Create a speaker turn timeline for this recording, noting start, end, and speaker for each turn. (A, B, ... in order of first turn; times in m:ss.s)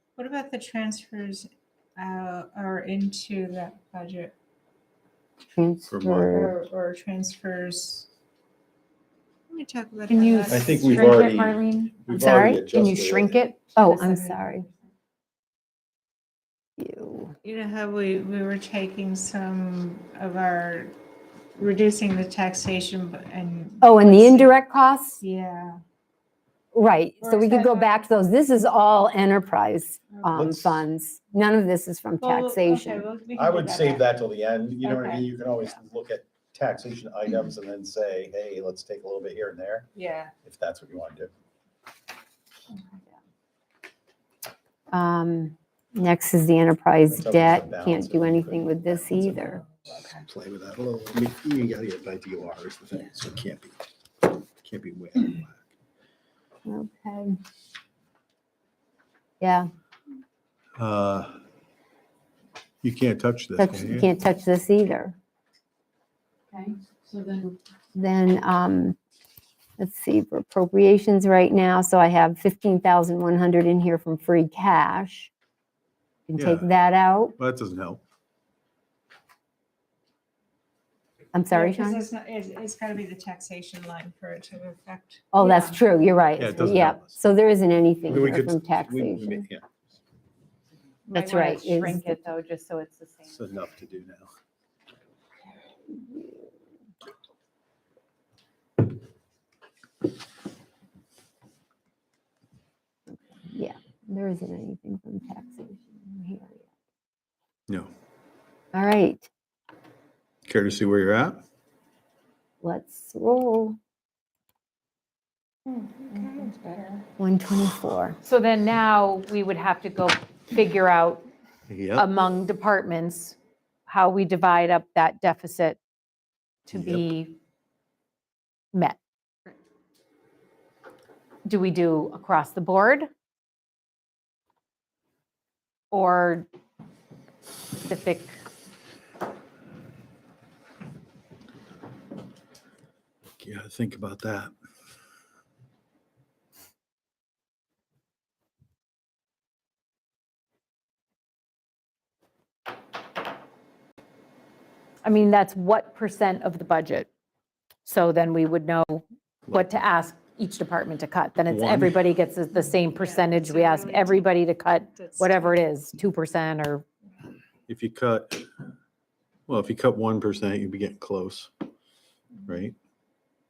0:00.2-0:04.3 A
0:05.6-0:06.6 B
0:05.9-0:06.5 C
0:06.3-0:08.1 A
0:09.5-0:11.0 A
0:10.1-0:12.0 D
0:10.5-0:13.4 C
0:12.1-0:12.7 B
0:12.6-0:14.6 D
0:13.8-0:14.7 B
0:16.8-0:17.3 B
0:17.4-0:20.9 A
0:21.6-0:24.5 A
0:23.8-0:25.2 B
0:25.2-0:25.8 A
0:26.7-0:33.1 B
0:27.2-0:28.0 A
0:30.3-0:30.8 C
0:32.2-0:34.0 A
0:33.4-0:39.9 C
0:34.8-0:35.2 A
0:39.9-0:40.3 A
0:40.4-0:41.3 C
0:44.9-0:49.6 B
0:47.1-0:49.3 C
0:49.2-0:50.2 A
0:50.2-0:53.7 C
0:54.6-0:55.6 C
0:56.6-0:57.4 B
0:59.4-0:59.7 B
1:00.8-1:01.4 C
1:02.8-1:04.1 C
1:03.6-1:05.2 B
1:06.5-1:07.6 D
1:07.9-1:09.0 B
1:09.8-1:15.3 B
1:16.3-1:17.3 B
1:16.4-1:16.7 C
1:17.4-1:18.0 C
1:21.3-1:22.0 B
1:21.5-1:25.3 A
1:25.3-1:29.4 B
1:25.4-1:25.8 D
1:26.4-1:27.2 C
1:28.1-1:29.7 C
1:31.1-1:33.5 D
1:31.1-1:32.2 B
1:33.3-1:34.3 C
1:35.9-1:36.5 B
1:43.1-1:46.6 B
1:48.7-1:49.3 B
1:50.4-1:51.4 C
1:52.6-1:53.8 B
1:55.6-1:57.0 A
1:57.2-1:58.2 B
1:58.2-2:01.2 D
2:01.7-2:02.1 C
2:01.9-2:05.8 D
2:06.6-2:07.4 D
2:06.7-2:07.0 C
2:08.7-2:09.0 D
2:11.4-2:13.1 D
2:15.9-2:16.5 D
2:17.8-2:18.4 D
2:23.4-2:24.5 C
2:35.0-2:37.1 D
2:37.8-2:46.8 D
2:41.5-2:42.0 C
2:42.7-2:44.3 A
2:44.9-2:45.6 A
2:47.7-2:48.5 C
2:49.5-2:51.5 C
2:52.4-2:52.8 C